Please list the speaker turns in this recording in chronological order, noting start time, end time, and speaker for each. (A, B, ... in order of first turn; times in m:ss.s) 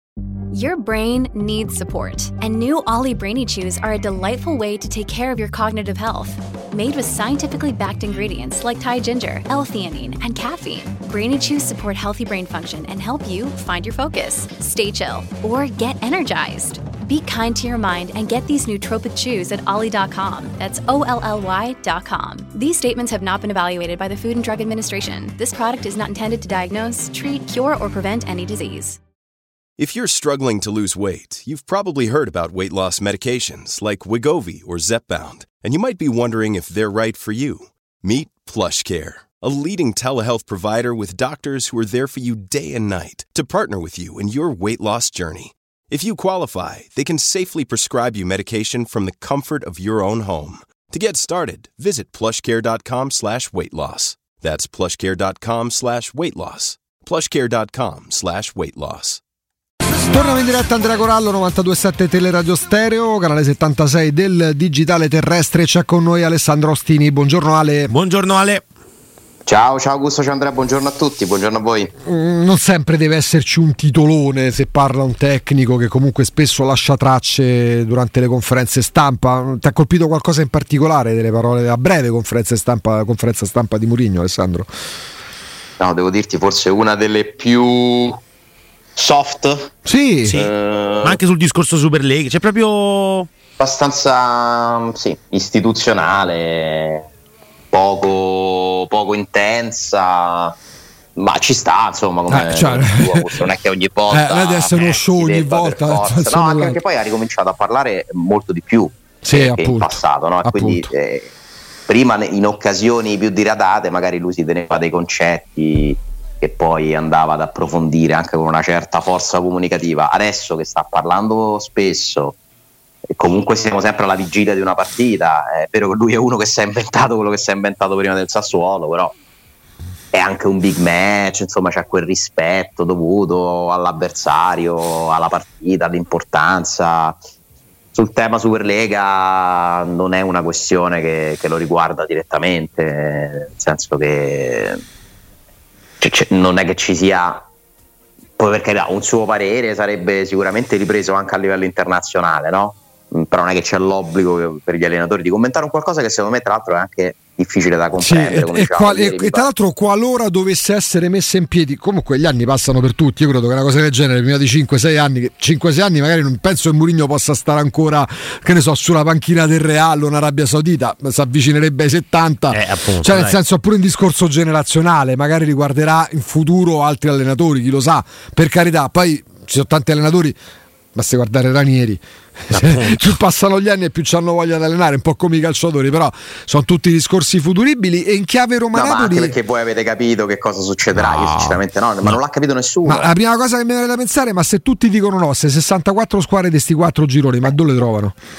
0:00.5-0:29.0 A
0:29.8-0:59.2 B
1:00.0-1:07.9 C
1:07.9-1:08.6 D
1:09.5-1:11.9 E
1:12.0-1:24.7 C
1:25.8-1:28.2 E
1:29.0-1:29.8 E
1:29.8-1:30.4 C
1:30.3-1:30.5 D
1:30.3-1:31.2 E
1:31.0-1:33.3 D
1:33.6-1:37.1 E
1:37.7-1:40.6 E
1:41.2-1:51.4 E
1:42.3-1:43.3 C
1:44.1-1:46.8 C
1:49.2-1:50.9 C
1:51.9-2:02.4 E
2:03.1-2:09.2 E
2:10.1-2:17.2 E
2:17.9-2:24.8 E
2:26.0-2:27.5 E
2:28.4-2:39.5 E
2:38.0-3:00.4 C
2:52.5-2:53.4 D
3:01.0-3:09.4 C
3:02.5-3:03.1 D
3:08.7-3:13.1 E
3:11.0-3:11.6 C
3:12.8-3:18.2 C